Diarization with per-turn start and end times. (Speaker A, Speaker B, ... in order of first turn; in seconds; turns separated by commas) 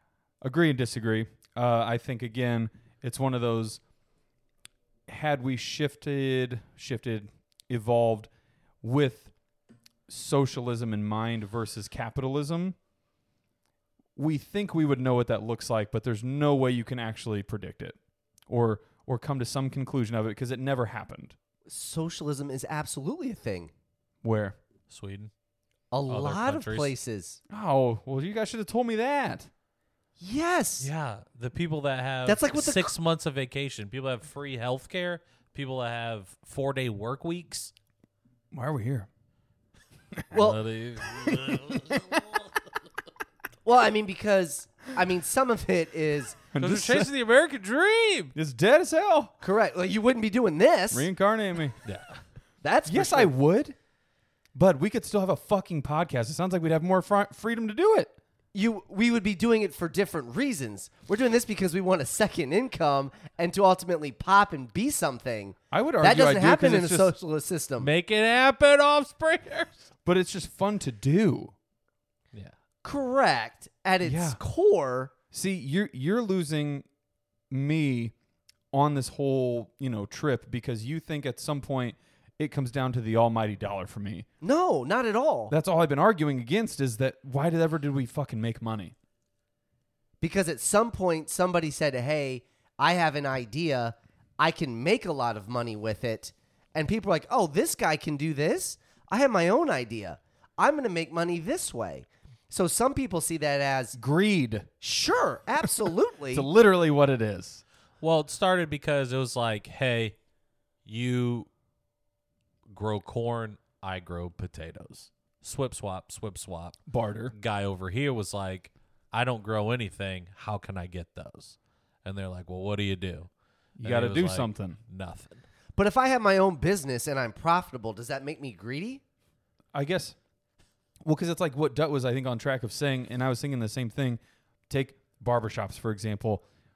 Speaker A: 0.4-3.8, Speaker A: 5.1-8.3, Speaker A: 8.8-9.3, Speaker A: 10.1-12.8, Speaker A: 14.2-18.0, Speaker A: 18.5-21.4, Speaker B: 21.7-23.7, Speaker A: 24.2-24.6, Speaker C: 24.9-25.3, Speaker B: 25.9-27.4, Speaker C: 26.1-26.9, Speaker A: 27.5-29.5, Speaker B: 30.2-30.9, Speaker C: 30.8-37.7, Speaker B: 32.3-32.9, Speaker A: 38.5-39.1, Speaker B: 40.3-40.6, Speaker C: 40.3-42.4, Speaker A: 41.7-42.2, Speaker B: 43.6-46.4, Speaker A: 46.5-47.1, Speaker C: 46.6-48.4, Speaker A: 48.4-49.3, Speaker B: 49.4-51.1, Speaker A: 50.9-51.8, Speaker B: 52.6-53.3, Speaker A: 52.9-53.8, Speaker A: 54.5-58.1, Speaker B: 58.5-67.9, Speaker A: 65.7-67.1, Speaker C: 67.8-69.9, Speaker A: 70.0-71.5, Speaker B: 72.8-75.1, Speaker A: 74.0-74.4, Speaker A: 75.3-76.9, Speaker A: 77.5-78.1, Speaker A: 78.7-84.3, Speaker B: 84.4-85.5, Speaker A: 85.5-88.9, Speaker B: 90.2-104.0, Speaker A: 104.0-104.7, Speaker B: 104.8-106.5, Speaker A: 106.3-107.6, Speaker C: 108.0-110.2, Speaker C: 110.9-111.5, Speaker C: 112.7-123.3, Speaker A: 116.9-117.3, Speaker A: 123.8-124.8, Speaker C: 123.8-125.4, Speaker B: 125.8-129.0, Speaker A: 129.7-130.2, Speaker A: 131.1-136.4